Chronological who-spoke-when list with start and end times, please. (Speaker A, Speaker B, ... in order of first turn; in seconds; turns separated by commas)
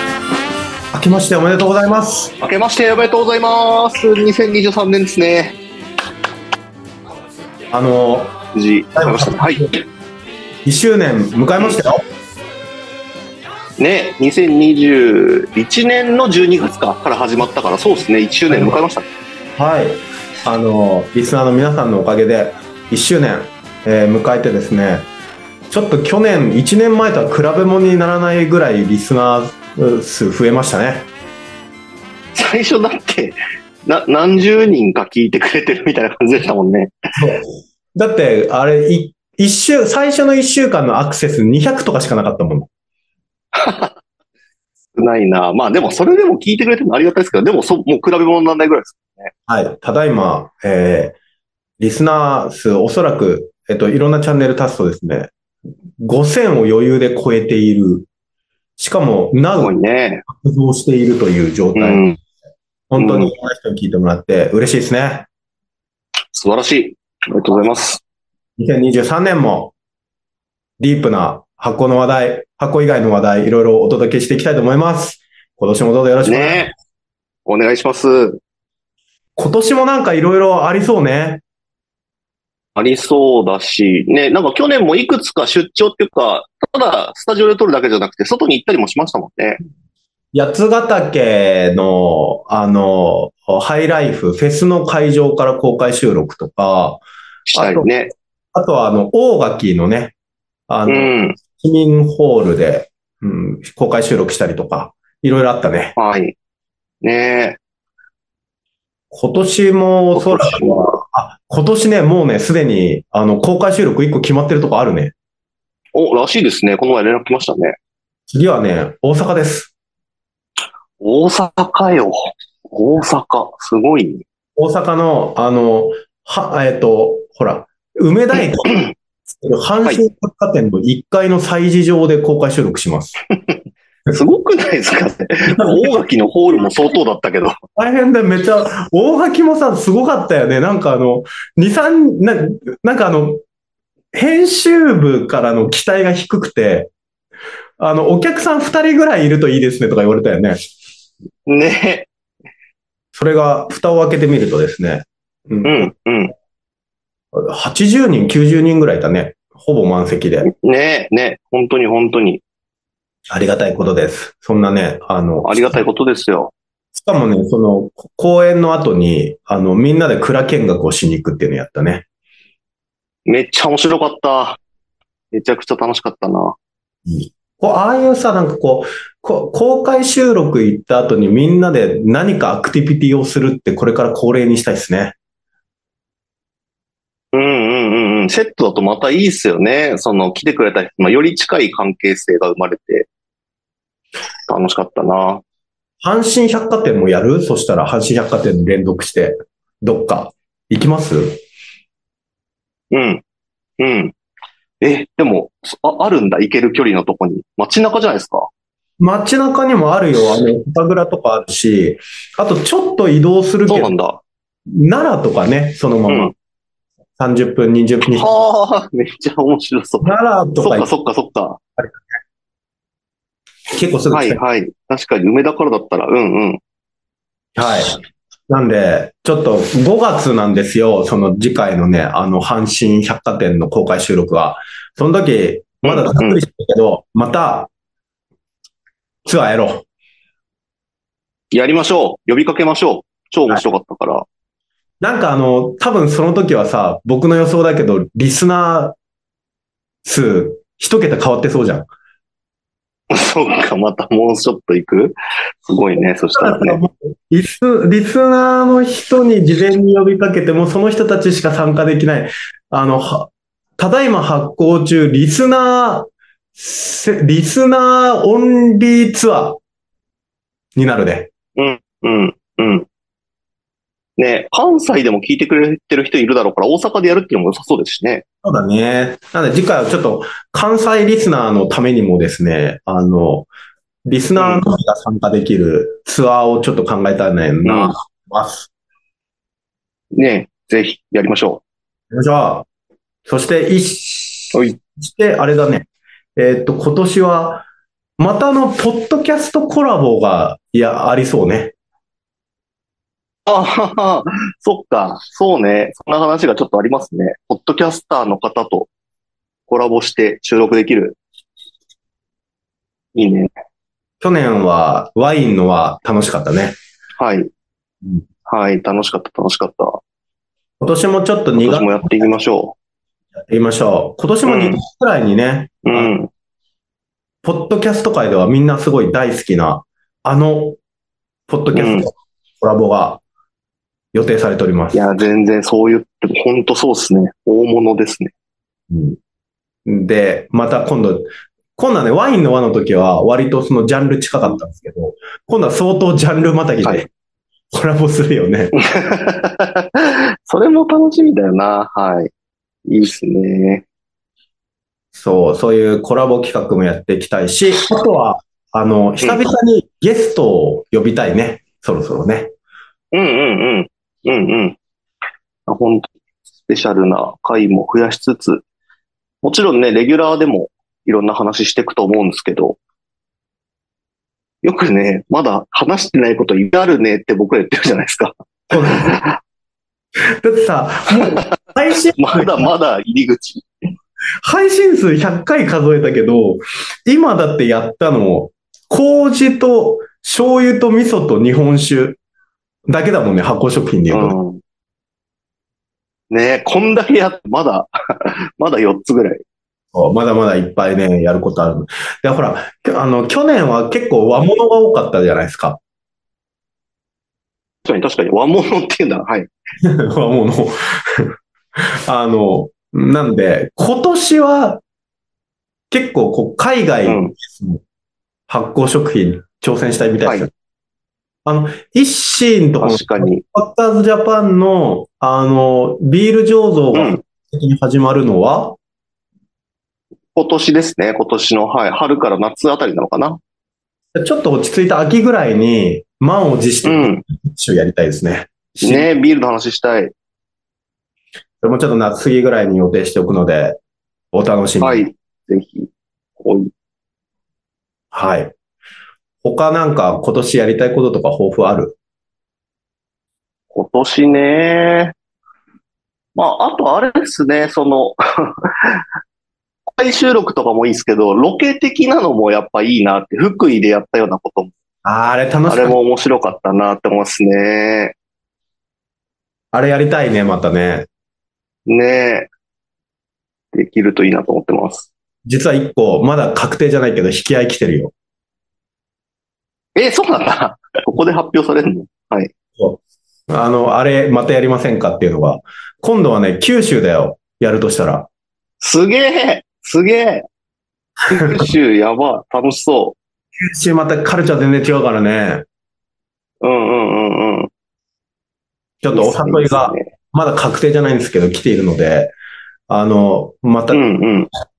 Speaker A: 0.9-2.3, Speaker B: 2.4-5.6, Speaker A: 7.7-8.3, Speaker B: 8.5-9.7, Speaker A: 8.9-9.8, Speaker A: 10.6-12.0, Speaker B: 13.8-19.1, Speaker A: 18.5-18.8, Speaker A: 19.6-25.1, Speaker A: 25.7-31.1, Speaker B: 32.4-36.9, Speaker A: 37.2-42.7, Speaker B: 43.5-43.9, Speaker B: 45.0-49.3, Speaker A: 49.5-51.2, Speaker A: 51.8-55.3, Speaker A: 56.0-58.1, Speaker A: 58.8-59.7, Speaker B: 59.6-60.2, Speaker A: 60.3-62.1, Speaker B: 61.7-62.2, Speaker A: 62.9-65.3, Speaker B: 63.0-63.3, Speaker B: 66.3-68.0, Speaker A: 68.6-69.7, Speaker A: 70.8-76.7, Speaker B: 76.2-76.7, Speaker B: 77.5-78.4, Speaker A: 79.4-81.4, Speaker B: 82.8-89.6, Speaker A: 90.3-97.0, Speaker B: 97.5-98.1, Speaker A: 97.5-97.9, Speaker A: 98.5-100.1, Speaker A: 100.7-105.9, Speaker B: 100.9-101.4, Speaker B: 106.0-106.3, Speaker B: 107.0-107.6, Speaker A: 109.1-115.1, Speaker B: 110.1-111.0, Speaker B: 115.9-117.8, Speaker A: 118.3-119.7, Speaker B: 121.0-124.2, Speaker A: 124.6-128.7, Speaker A: 129.4-133.2, Speaker B: 133.4-137.5, Speaker A: 135.5-135.9, Speaker A: 137.8-143.4, Speaker A: 144.1-146.9, Speaker A: 147.8-150.6, Speaker B: 151.4-152.1, Speaker A: 153.1-155.9, Speaker B: 155.6-156.3, Speaker A: 157.3-160.5, Speaker B: 160.4-162.4, Speaker A: 163.3-165.8, Speaker B: 165.4-166.5, Speaker A: 166.9-172.1, Speaker B: 173.2-174.6, Speaker B: 175.3-176.6, Speaker A: 177.1-185.2, Speaker B: 187.3-193.1, Speaker B: 194.5-195.4, Speaker A: 196.0-201.4, Speaker B: 202.9-203.2, Speaker B: 203.8-204.1, Speaker B: 204.8-208.4, Speaker A: 209.0-213.9, Speaker B: 213.7-214.2, Speaker A: 214.7-216.3, Speaker B: 216.1-216.3, Speaker A: 217.2-218.3, Speaker B: 218.1-221.6, Speaker A: 220.0-220.9, Speaker A: 223.7-224.4, Speaker B: 224.1-226.6, Speaker A: 227.6-227.9, Speaker A: 228.5-237.7, Speaker B: 235.8-236.4, Speaker A: 239.2-239.9, Speaker B: 241.5-244.2, Speaker A: 245.0-248.9, Speaker A: 250.1-251.9, Speaker B: 253.1-256.8, Speaker A: 256.3-269.6, Speaker A: 270.8-271.3, Speaker B: 271.6-272.9, Speaker B: 274.2-278.2, Speaker A: 278.4-283.5, Speaker A: 284.1-288.7, Speaker B: 284.4-284.6, Speaker B: 287.6-287.9, Speaker B: 290.1-291.6, Speaker A: 292.1-292.7, Speaker A: 293.2-297.6, Speaker B: 294.5-294.8, Speaker A: 298.2-301.7, Speaker B: 303.4-308.9, Speaker B: 309.7-311.2, Speaker B: 313.1-313.5, Speaker A: 314.2-316.8, Speaker B: 317.2-317.5, Speaker B: 318.5-320.0, Speaker A: 320.8-322.3, Speaker B: 321.6-322.8, Speaker A: 323.5-326.1, Speaker B: 324.4-324.8, Speaker B: 325.9-326.3, Speaker A: 327.4-330.8, Speaker A: 331.5-333.2, Speaker B: 331.7-332.1, Speaker A: 334.1-335.0, Speaker B: 334.9-338.3, Speaker A: 338.9-339.2, Speaker A: 339.9-347.1, Speaker A: 347.7-348.7, Speaker B: 348.9-352.3, Speaker B: 352.9-353.9, Speaker A: 355.1-362.5, Speaker B: 363.1-364.8, Speaker B: 365.7-366.1, Speaker B: 366.7-368.6, Speaker B: 369.4-372.8, Speaker B: 374.6-378.3, Speaker A: 378.7-379.3, Speaker B: 378.9-379.3, Speaker A: 380.4-382.7, Speaker B: 382.2-383.7, Speaker A: 384.4-392.2, Speaker A: 392.9-394.4, Speaker B: 394.1-394.6, Speaker B: 396.3-399.4, Speaker A: 399.9-405.8, Speaker B: 407.8-409.5, Speaker A: 409.8-411.3, Speaker A: 412.1-414.8, Speaker A: 415.9-417.8, Speaker B: 417.1-417.3, Speaker A: 418.5-420.5, Speaker A: 421.4-428.8, Speaker B: 422.8-423.4, Speaker B: 426.9-427.2, Speaker B: 430.3-433.4, Speaker A: 434.1-439.1, Speaker B: 436.8-437.2, Speaker B: 438.8-440.1, Speaker A: 441.6-443.8, Speaker A: 444.3-445.1, Speaker B: 444.8-446.7, Speaker A: 448.1-448.5, Speaker A: 449.4-452.0, Speaker B: 453.7-455.1, Speaker B: 456.3-459.0, Speaker B: 460.0-464.7, Speaker A: 465.1-465.9, Speaker B: 465.7-468.1, Speaker A: 469.7-471.1, Speaker B: 471.9-472.5, Speaker B: 473.7-475.1, Speaker A: 475.4-478.1, Speaker B: 479.9-482.5, Speaker A: 482.8-488.3, Speaker B: 488.8-490.4, Speaker B: 491.3-493.1, Speaker A: 493.6-495.6, Speaker B: 496.6-497.7, Speaker A: 499.0-502.3, Speaker B: 499.1-500.1, Speaker A: 502.9-504.0, Speaker B: 503.9-504.5